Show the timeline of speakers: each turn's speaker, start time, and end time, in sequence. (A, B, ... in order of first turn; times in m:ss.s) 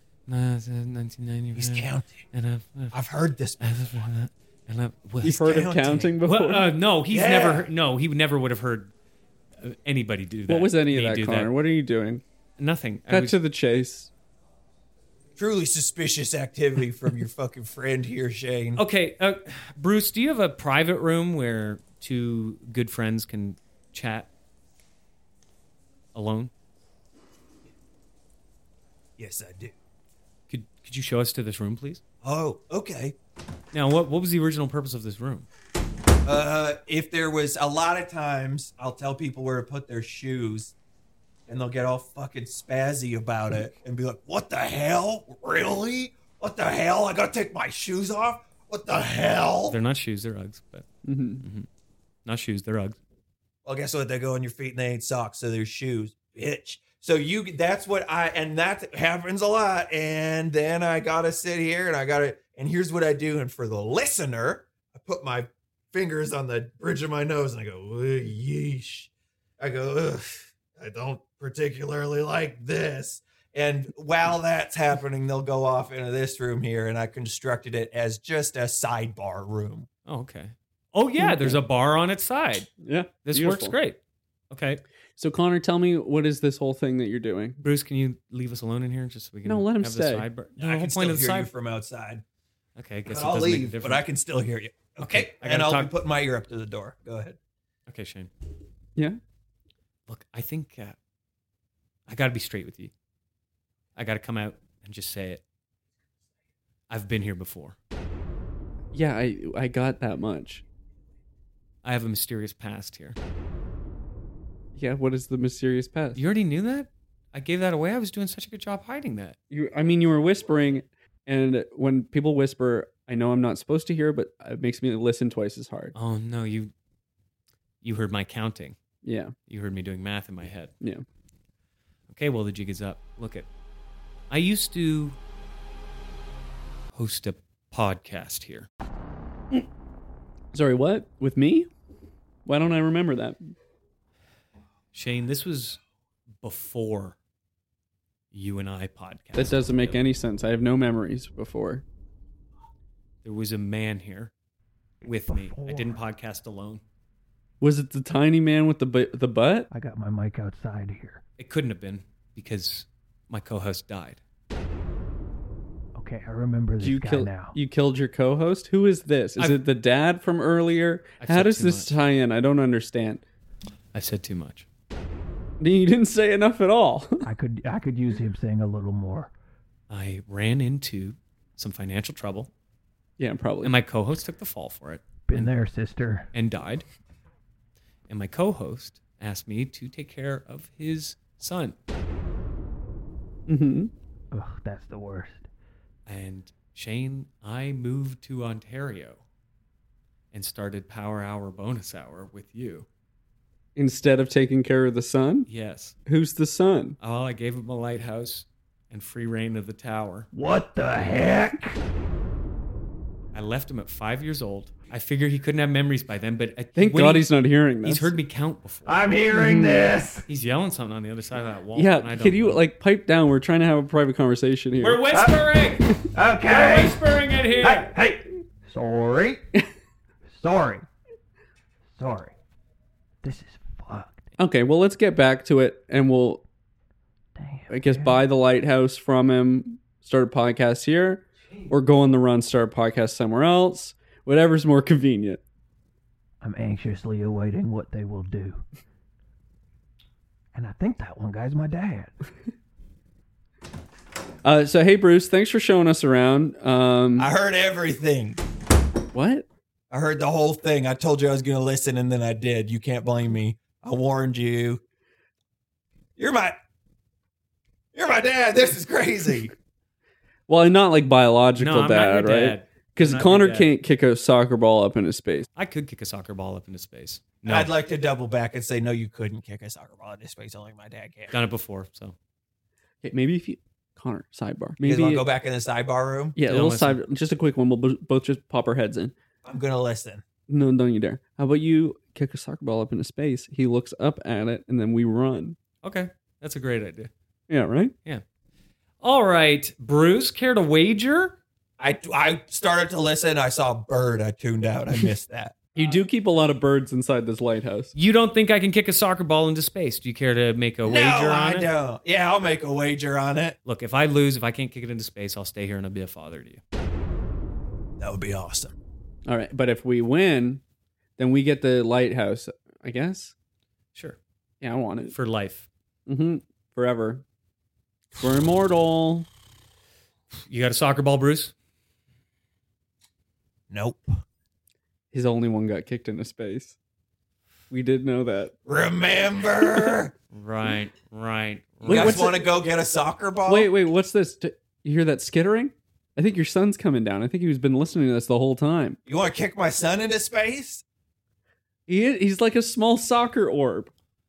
0:00.3-0:03.0 A
0:01.6-0:02.2 B
0:02.9-0:03.7 B
0:03.6-0:05.7 A
0:05.2-0:06.6 C
0:05.3-0:06.2 B
0:06.2-0:08.9 A
0:07.1-0:07.7 B
0:09.6-0:11.5 A
0:10.5-0:12.2 C
0:12.6-0:13.4 A
0:13.1-0:14.1 C
0:15.4-0:18.8 B
0:18.8-0:24.3 A
0:26.1-0:26.5 A
0:29.2-0:29.7 B
0:30.5-0:32.0 A
0:32.2-0:33.2 B
0:33.7-0:35.5 A
0:36.2-0:40.7 B
0:41.5-0:49.8 B
0:49.7-0:50.9 A
0:51.0-0:51.5 C
0:51.4-0:51.7 A
0:52.2-0:53.0 A
0:53.6-1:19.9 B
1:20.1-1:22.7 A
1:21.2-1:21.6 C
1:22.8-1:23.8 C
1:23.3-1:24.0 A
1:24.5-1:24.8 A
1:25.2-1:27.6 C
1:27.6-1:31.5 A
1:29.4-1:30.3 C
1:30.6-1:32.2 B
1:32.8-1:34.0 A
1:33.1-1:37.4 B
1:35.0-1:35.9 A
1:37.9-1:38.3 A
1:40.1-1:41.0 A
1:42.1-1:42.9 A
1:44.0-1:45.4 A
1:46.9-1:47.8 A
1:48.9-1:50.6 C
1:51.8-1:53.2 A
1:54.8-1:56.2 C
1:56.2-1:59.4 A
1:59.5-2:06.0 C
2:06.0-2:06.7 A
2:07.8-2:08.8 A
2:09.0-2:09.3 C
2:09.5-2:10.7 A
2:12.1-2:13.5 A
2:14.3-2:15.2 A
2:16.9-2:18.7 A
2:20.5-2:21.7 C
2:22.5-2:23.5 C
2:24.9-2:25.8 A
2:26.4-2:27.2 A
2:28.3-2:30.0 A
2:29.4-2:31.8 C
2:33.2-2:34.3 A
2:35.0-2:36.8 A
2:35.3-2:36.0 D
2:37.6-2:39.7 C
2:39.7-2:41.2 D
2:41.4-2:44.2 A
2:46.0-2:47.6 D
2:46.8-2:53.2 C
2:51.2-2:51.9 A
2:53.9-2:54.7 A
2:55.6-2:57.3 C
2:57.2-2:59.3 D
2:59.9-3:02.5 A
3:03.2-3:03.8 C
3:03.6-3:05.5 A
3:05.2-3:06.3 D
3:06.3-3:06.8 A
3:08.1-3:11.8 A
3:13.5-3:13.9 C
3:14.3-3:15.5 D
3:16.1-3:19.2 A
3:20.3-3:22.9 A
3:23.8-3:25.5 C
3:25.5-3:26.0 A
3:26.1-3:27.0 C
3:27.0-3:30.3 A
3:30.3-3:31.6 D
3:31.0-3:31.5 B
3:33.3-3:39.0 A
3:36.8-3:38.1 C
3:38.9-3:40.2 B
3:39.3-3:39.9 C
3:40.3-3:42.6 A
3:41.8-3:45.0 C
3:44.8-3:45.9 A
3:45.1-3:45.4 B
3:46.1-3:47.0 B
3:46.5-3:47.9 A
3:47.6-3:48.2 B
3:48.7-3:49.4 D
3:50.3-3:50.9 D
3:52.0-3:52.4 D
3:53.2-3:54.3 D
3:54.4-3:56.4 C
3:57.4-3:58.2 D
3:57.7-4:05.4 C
4:06.4-4:08.6 D
4:10.5-4:12.1 D
4:14.4-4:17.3 C
4:17.2-4:18.4 B
4:19.1-4:19.5 C
4:19.9-4:24.8 B
4:26.2-4:26.6 B
4:27.9-4:29.5 B
4:30.5-4:35.5 C
4:31.6-4:33.7 A
4:35.6-4:37.7 A
4:37.5-4:41.4 B
4:41.3-4:42.2 A
4:43.0-4:45.2 C
4:44.8-4:46.4 B
4:46.4-4:49.1 C
4:46.4-4:47.0 A
4:49.4-4:50.2 B
4:50.5-4:55.6 C
4:55.8-4:57.1 A
4:57.5-4:57.9 C
4:59.0-5:01.4 A
5:01.8-5:05.6 B
5:05.8-5:07.9 C
5:08.0-5:11.7 A
5:10.8-5:13.6 B
5:13.7-5:16.6 A
5:18.0-5:18.7 B
5:19.3-5:20.6 C
5:21.2-5:23.3 C
5:24.6-5:25.1 C
5:25.1-5:25.7 A
5:26.1-5:27.2 C
5:28.2-5:29.3 C
5:30.5-5:31.5 A
5:33.7-5:34.2 B
5:35.1-5:36.8 C
5:37.7-5:38.5 C
5:38.7-5:40.1 B
5:40.3-5:42.4 A
5:41.8-5:42.4 C
5:41.9-5:43.7 B
5:43.5-5:49.0 C
5:49.1-5:50.8 B
5:51.9-5:53.9 C